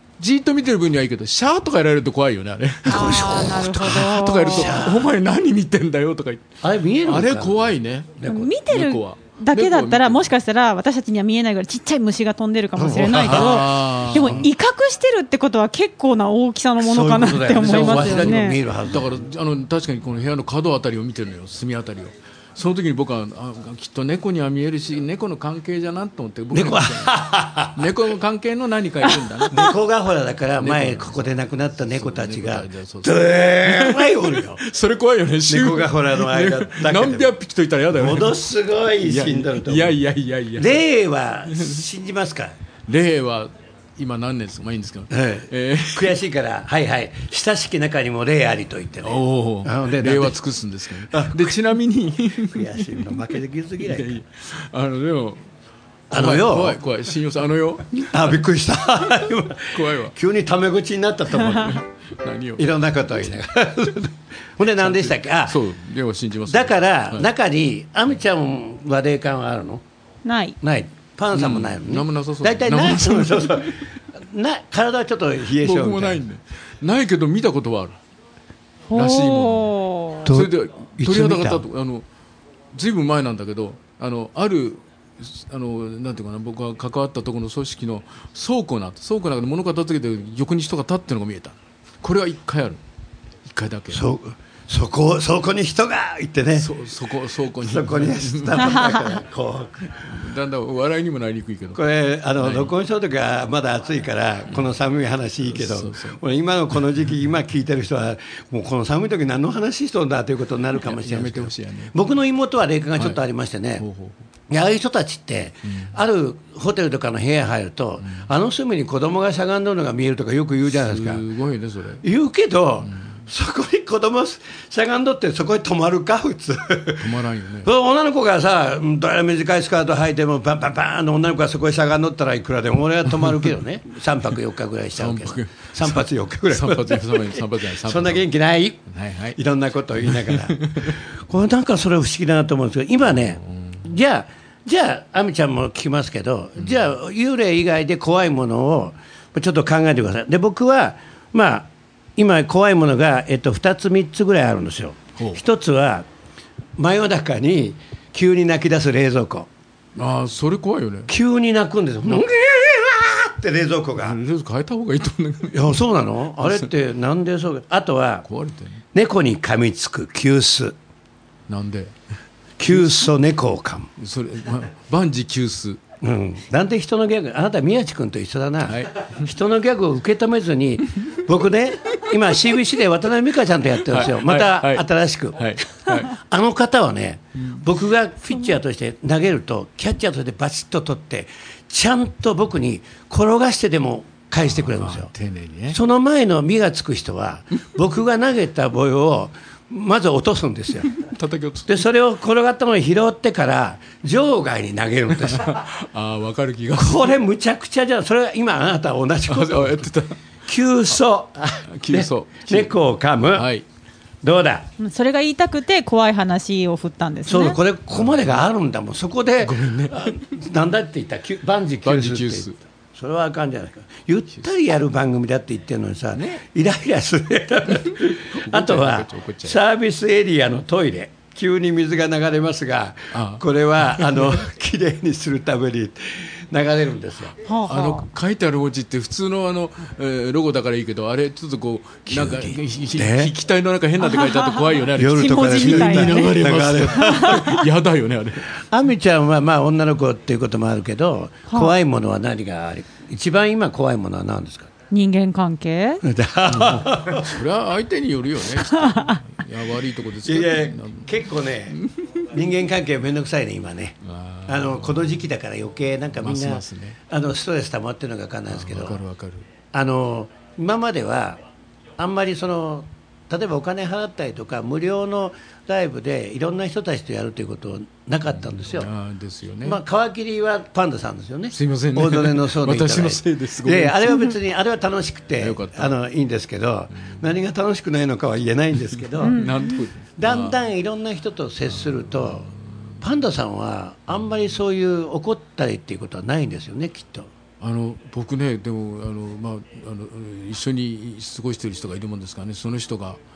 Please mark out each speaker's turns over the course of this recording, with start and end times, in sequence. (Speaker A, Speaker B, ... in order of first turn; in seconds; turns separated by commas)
Speaker A: 0.2-10.3, Speaker B: 2.9-5.1, Speaker C: 2.9-4.8, Speaker B: 6.6-7.6, Speaker B: 8.2-8.5, Speaker C: 8.3-18.6, Speaker B: 12.8-14.4, Speaker A: 13.1-14.4, Speaker B: 16.8-19.1, Speaker A: 17.5-27.1, Speaker B: 26.5-27.9, Speaker A: 27.8-29.7, Speaker C: 29.1-29.4, Speaker B: 29.5-34.6, Speaker A: 30.6-38.4, Speaker B: 35.5-37.3, Speaker B: 37.9-40.0, Speaker A: 39.0-40.8, Speaker B: 40.6-42.5, Speaker A: 41.5-41.8, Speaker A: 42.9-46.2, Speaker B: 45.1-50.4, Speaker A: 49.0-53.2, Speaker B: 51.1-51.6, Speaker B: 52.4-54.2, Speaker A: 53.8-55.4, Speaker B: 56.1-56.8, Speaker A: 56.1-58.4, Speaker B: 58.0-61.8, Speaker A: 59.7-60.1, Speaker A: 61.5-62.7, Speaker B: 62.6-65.6, Speaker A: 64.8-67.3, Speaker B: 66.5-69.8, Speaker C: 70.2-70.6, Speaker B: 70.6-76.2, Speaker A: 71.3-73.8, Speaker A: 75.5-78.0, Speaker C: 78.9-80.3, Speaker A: 78.9-79.7, Speaker A: 80.2-82.0, Speaker B: 80.2-81.6, Speaker A: 82.7-92.8, Speaker A: 93.4-94.1, Speaker B: 93.9-96.7, Speaker A: 96.5-98.8, Speaker B: 97.6-100.0, Speaker C: 98.6-99.1, Speaker A: 100.0-101.8, Speaker B: 101.7-113.8, Speaker A: 102.4-102.7, Speaker A: 105.4-106.2, Speaker A: 110.8-111.9, Speaker A: 113.8-114.2, Speaker B: 114.5-121.2, Speaker A: 115.7-115.9, Speaker A: 120.7-122.0, Speaker B: 122.0-127.1, Speaker A: 122.8-123.2, Speaker A: 127.0-127.7, Speaker B: 127.6-138.8, Speaker A: 134.9-138.3, Speaker A: 138.8-139.4, Speaker B: 139.3-156.1, Speaker A: 140.0-141.0, Speaker A: 143.4-143.8, Speaker B: 156.8-159.5, Speaker A: 159.9-161.1, Speaker B: 161.1-164.2, Speaker A: 164.0-165.8, Speaker B: 165.5-168.2, Speaker A: 168.2-168.8, Speaker B: 168.9-170.7, Speaker A: 171.5-171.9, Speaker B: 172.6-173.9, Speaker A: 172.7-173.1, Speaker A: 174.0-175.8, Speaker B: 176.0-195.1, Speaker A: 178.6-179.2, Speaker A: 183.9-186.1, Speaker A: 187.4-187.6, Speaker A: 194.5-195.8, Speaker B: 195.7-200.9, Speaker A: 200.9-201.8, Speaker B: 201.7-205.6, Speaker A: 205.2-207.1, Speaker B: 206.7-209.9, Speaker A: 209.3-210.2, Speaker B: 210.4-213.5, Speaker A: 211.7-212.7, Speaker A: 213.3-213.6, Speaker B: 214.2-214.7, Speaker C: 214.8-217.6, Speaker B: 217.3-237.4, Speaker A: 217.9-218.4, Speaker A: 219.4-220.2, Speaker A: 221.8-222.6, Speaker A: 226.1-226.4, Speaker A: 227.7-229.6, Speaker A: 233.1-234.3, Speaker C: 237.4-238.1, Speaker A: 237.7-248.5, Speaker B: 242.1-243.3, Speaker C: 244.0-247.6, Speaker B: 244.9-247.5, Speaker B: 248.6-254.7, Speaker C: 254.9-256.0, Speaker B: 256.0-257.4, Speaker A: 256.4-261.1, Speaker B: 260.2-269.0, Speaker A: 261.7-262.1, Speaker A: 264.0-265.1, Speaker A: 266.2-267.0, Speaker A: 268.5-269.4, Speaker B: 269.7-271.4, Speaker B: 272.0-278.9, Speaker A: 278.5-279.8, Speaker B: 279.6-289.5, Speaker A: 281.5-284.1, Speaker A: 285.4-285.9, Speaker A: 289.2-290.6, Speaker C: 289.2-289.8, Speaker B: 290.2-297.3, Speaker A: 291.9-292.5, Speaker A: 297.6-303.2